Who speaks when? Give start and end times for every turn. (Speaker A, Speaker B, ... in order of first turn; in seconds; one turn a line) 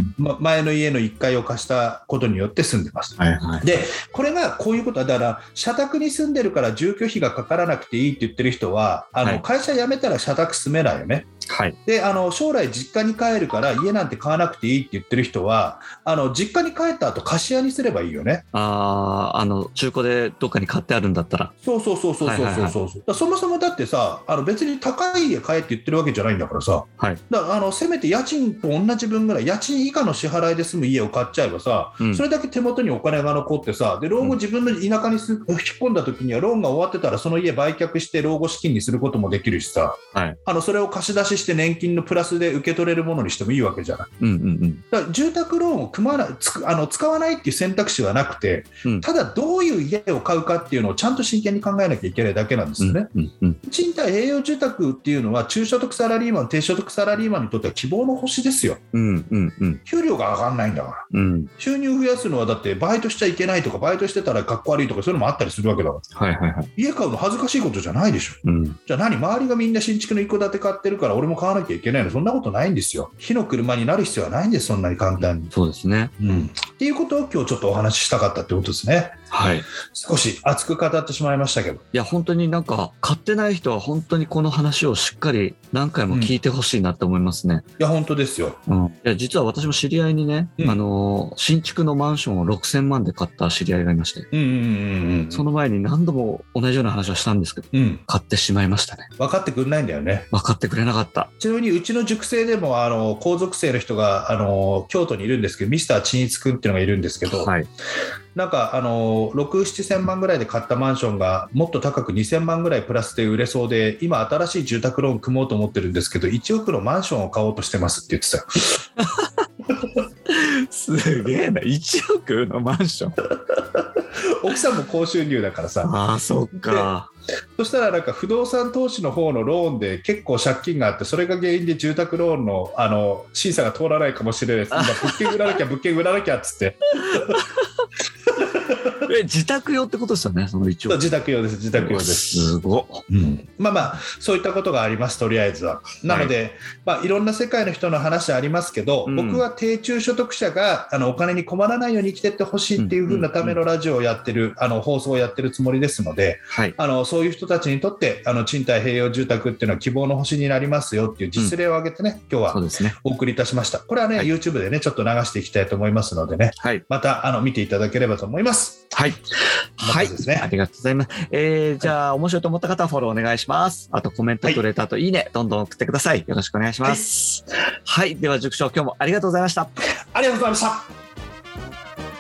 Speaker A: 0.2-11.3
Speaker B: 3.2-3.7
Speaker B: 11.5-11.8
Speaker A: 11.9-18.4
Speaker B: 18.5-21.5
Speaker A: 21.6-44.1
Speaker B: 22.2-22.8
Speaker B: 44.2-44.8
Speaker A: 44.9-53.1
Speaker B: 52.8-53.6
Speaker A: 53.6-58.8
Speaker B: 58.9-59.8
Speaker A: 59.9-61.1
Speaker B: 61.1-61.5
Speaker A: 61.6-66.0
Speaker B: 66.2-66.7
Speaker A: 66.8-75.5
Speaker B: 68.4-68.8
Speaker B: 75.2-76.1
Speaker A: 76.2-79.2
Speaker B: 79.3-79.7
Speaker A: 79.9-81.8
Speaker B: 81.9-87.6
Speaker A: 87.8-88.6
Speaker B: 88.7-94.3
Speaker A: 94.3-95.5
Speaker B: 95.3-99.1
Speaker A: 97.7-98.0
Speaker A: 99.2-100.3
Speaker B: 100.3-101.3
Speaker A: 101.4-107.5
Speaker B: 107.3-107.7
Speaker A: 108.3-118.8
Speaker B: 119.0-119.3
Speaker B: 120.3-123.2
Speaker A: 124.0-125.9
Speaker B: 125.8-127.1
Speaker A: 127.6-137.4
Speaker B: 134.7-135.6
Speaker B: 137.1-137.7
Speaker B: 139.0-141.1
Speaker A: 140.9-142.5
Speaker B: 141.7-143.0
Speaker A: 143.1-168.9
Speaker B: 146.1-146.3
Speaker B: 149.1-149.4
Speaker B: 152.8-153.6
Speaker B: 156.5-156.8
Speaker B: 162.5-162.9
Speaker B: 168.9-169.2
Speaker B: 169.8-179.8
Speaker A: 169.8-170.5
Speaker A: 180.1-180.9